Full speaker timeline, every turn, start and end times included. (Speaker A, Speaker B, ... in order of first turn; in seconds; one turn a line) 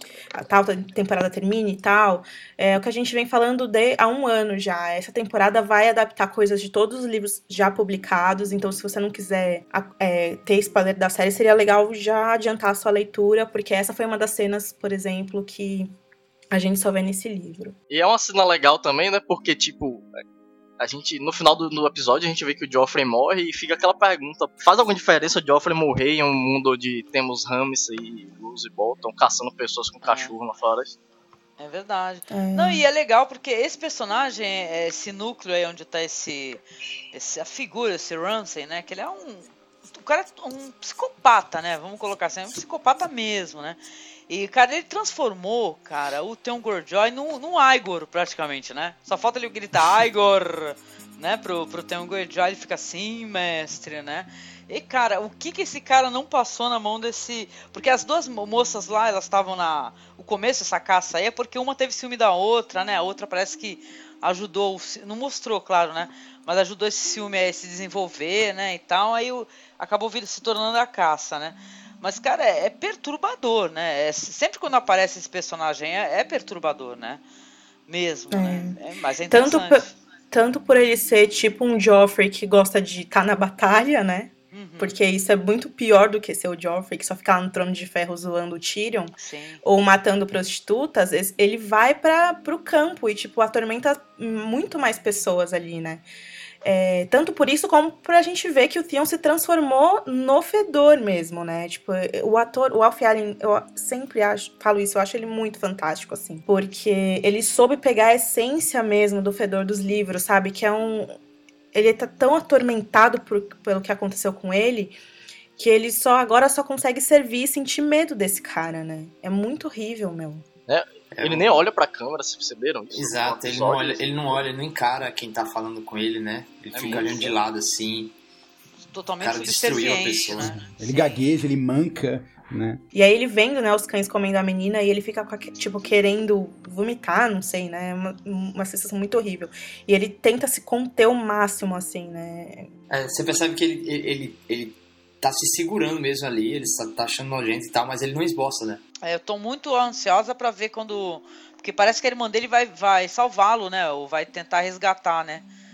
Speaker A: 0.3-15.9
Speaker A: 16.5-17.7
Speaker B: 17.9-20.2
Speaker B: 20.8-31.0
Speaker C: 30.0-30.3
Speaker C: 31.6-36.6
Speaker A: 32.3-32.8
Speaker C: 37.1-77.2
Speaker C: 77.9-79.9
Speaker A: 78.3-78.8
Speaker A: 79.3-96.0
Speaker C: 84.5-84.9
Speaker C: 89.2-89.6
Speaker A: 96.6-111.1
Speaker A: 111.7-115.0
Speaker A: 115.6-120.4
Speaker B: 120.7-124.4
Speaker D: 121.1-121.6
Speaker D: 122.9-128.1
Speaker B: 126.7-127.4
Speaker C: 128.9-131.2
Speaker D: 129.2-130.6
Speaker E: 130.5-132.8
Speaker A: 132.9-142.7
Speaker D: 142.9-148.8
Speaker C: 149.0-155.4